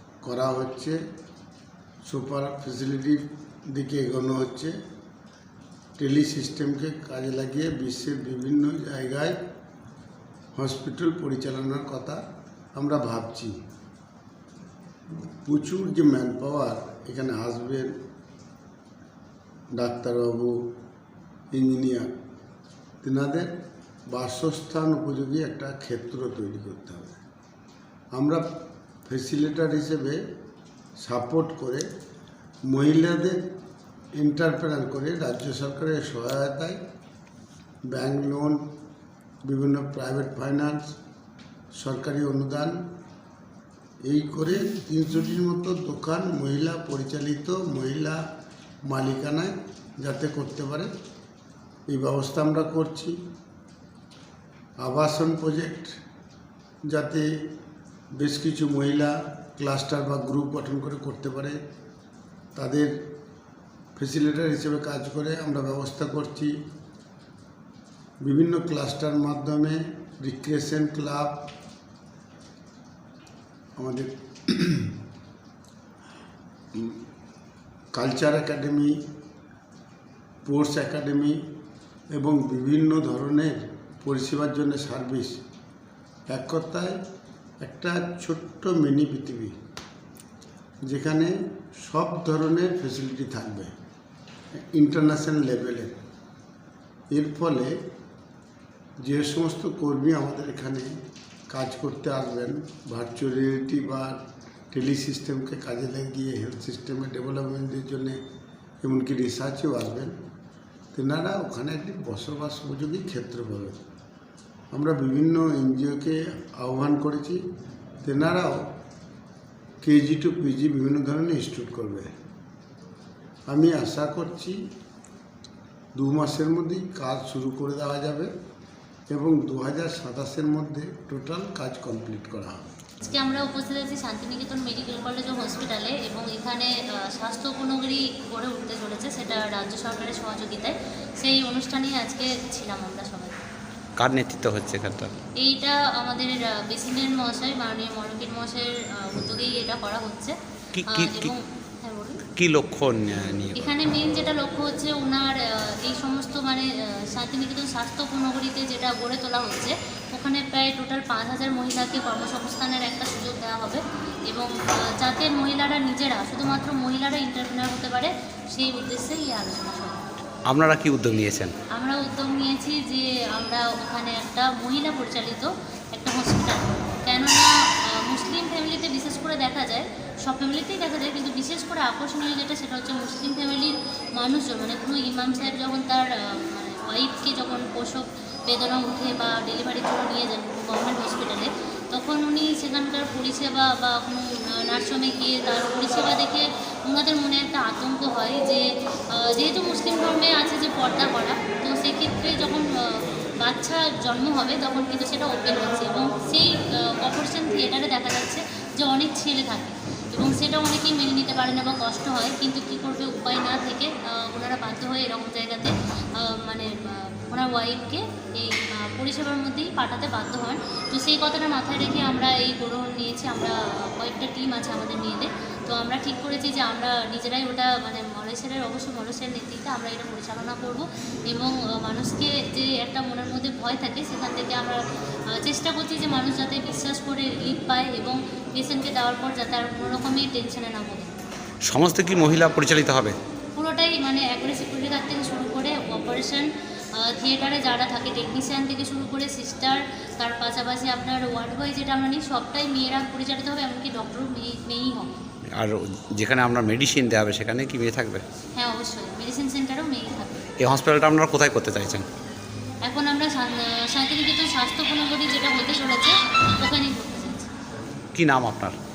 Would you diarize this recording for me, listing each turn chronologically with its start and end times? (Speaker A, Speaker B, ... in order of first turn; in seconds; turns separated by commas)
Speaker A: 0.2-1.0, Speaker A: 2.0-4.7, Speaker A: 6.0-9.3, Speaker A: 10.5-12.2, Speaker A: 12.7-13.5, Speaker A: 15.4-17.9, Speaker A: 19.8-20.5, Speaker A: 21.5-22.1, Speaker A: 23.0-23.5, Speaker A: 24.1-27.2, Speaker A: 28.1-28.4, Speaker A: 29.1-30.2, Speaker A: 31.0-31.8, Speaker A: 32.7-33.4, Speaker A: 34.2-36.8, Speaker A: 37.9-38.6, Speaker A: 39.5-40.9, Speaker A: 41.8-42.8, Speaker A: 44.1-48.2, Speaker A: 48.9-50.9, Speaker A: 51.9-53.1, Speaker A: 54.8-55.9, Speaker A: 56.9-57.2, Speaker A: 58.2-61.6, Speaker A: 62.5-62.9, Speaker A: 64.0-66.5, Speaker A: 68.2-71.5, Speaker A: 73.8-74.9, Speaker A: 77.9-78.9, Speaker A: 80.4-81.4, Speaker A: 82.1-85.3, Speaker A: 86.3-87.0, Speaker A: 87.6-89.5, Speaker A: 90.9-93.7, Speaker A: 94.6-95.9, Speaker A: 97.1-97.7, Speaker A: 99.0-100.9, Speaker A: 101.5-104.2, Speaker A: 104.7-108.2, Speaker A: 108.8-110.1, Speaker A: 110.9-113.8, Speaker A: 114.7-117.4, Speaker A: 118.0-118.6, Speaker A: 119.8-122.1, Speaker A: 123.5-124.6, Speaker A: 126.0-128.3, Speaker A: 129.1-132.6, Speaker B: 133.0-143.4, Speaker C: 144.0-145.1, Speaker B: 145.4-150.3, Speaker C: 150.7-151.3, Speaker B: 150.9-152.2, Speaker C: 152.4-153.6, Speaker B: 153.6-170.0, Speaker C: 170.5-171.5, Speaker B: 171.7-198.6, Speaker B: 199.1-234.8, Speaker B: 235.3-241.2, Speaker C: 241.7-243.1, Speaker B: 243.6-246.4, Speaker B: 247.0-255.1, Speaker C: 255.5-258.2, Speaker B: 258.6-260.5, Speaker C: 260.6-262.1, Speaker B: 262.9-267.5, Speaker C: 268.1-268.8